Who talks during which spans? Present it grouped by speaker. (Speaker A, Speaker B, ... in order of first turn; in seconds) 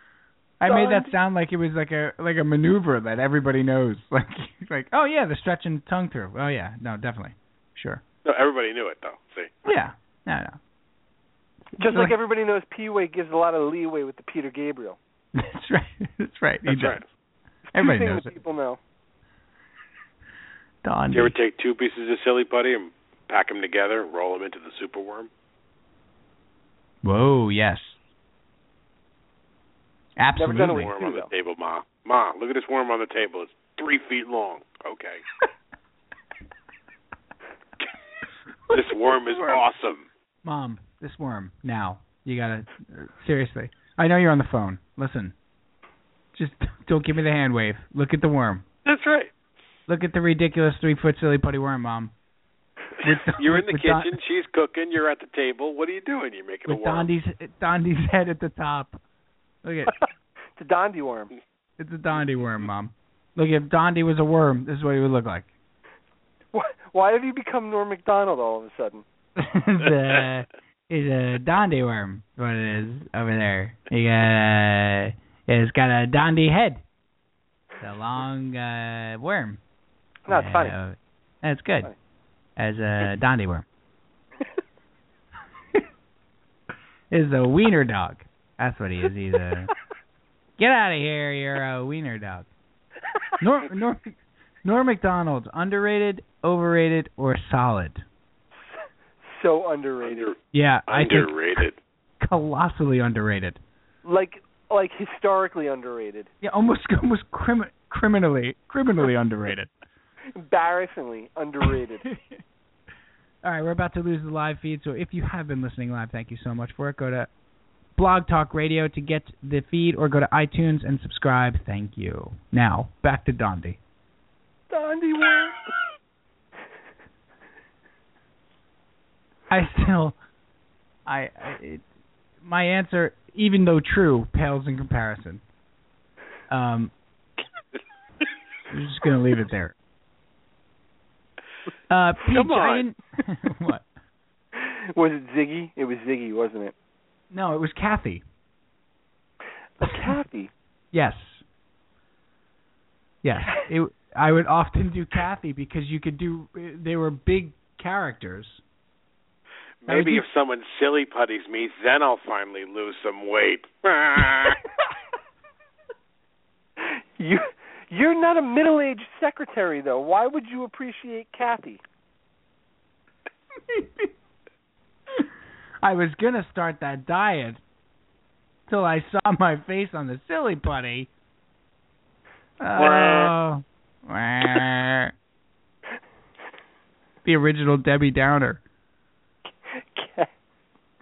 Speaker A: 0.6-8.0, 9.7-10.6, 11.8-12.2, 15.3-17.0, 17.7-18.3, 20.8-21.4, 27.0-28.0, 30.2-30.9, 38.7-39.6, 40.4-45.4, 46.3-48.6, 49.9-52.1, 53.0-54.2, 56.7-59.0, 59.6-60.0, 61.8-65.5, 69.4-76.8, 77.8-79.6, 80.3-81.9, 82.6-83.7, 87.1-89.7, 90.6-92.5, 93.4-98.0, 100.5-101.6, 102.2-103.6, 106.4-109.7, 112.1-112.4, 113.4-117.3, 118.0-123.8, 129.5-130.2, 131.1-131.8, 132.4-135.4, 136.5-136.9, 138.7-139.8, 141.9-143.9, 147.3-148.2, 149.8-150.2, 150.9-151.4, 153.2-158.6, 159.9-160.3, 173.7-174.1, 175.8-177.6, 178.7-181.1, 182.6-185.1, 187.2-188.6
Speaker B: 0.7-1.1, 11.8-15.0, 17.7-18.8, 30.4-31.3, 60.5-61.3, 66.5-69.0, 80.3-80.8, 98.6-100.3, 104.0-106.3, 110.3-112.1, 124.7-125.6, 144.5-146.7, 149.8-150.5, 166.8-171.8, 189.7-190.3
Speaker C: 8.2-9.5, 16.7-17.1, 21.1-25.3, 30.4-35.2, 38.7-40.1, 48.9-49.3, 53.3-57.1, 100.0-101.8, 142.2-142.9, 159.8-164.6, 182.8-183.3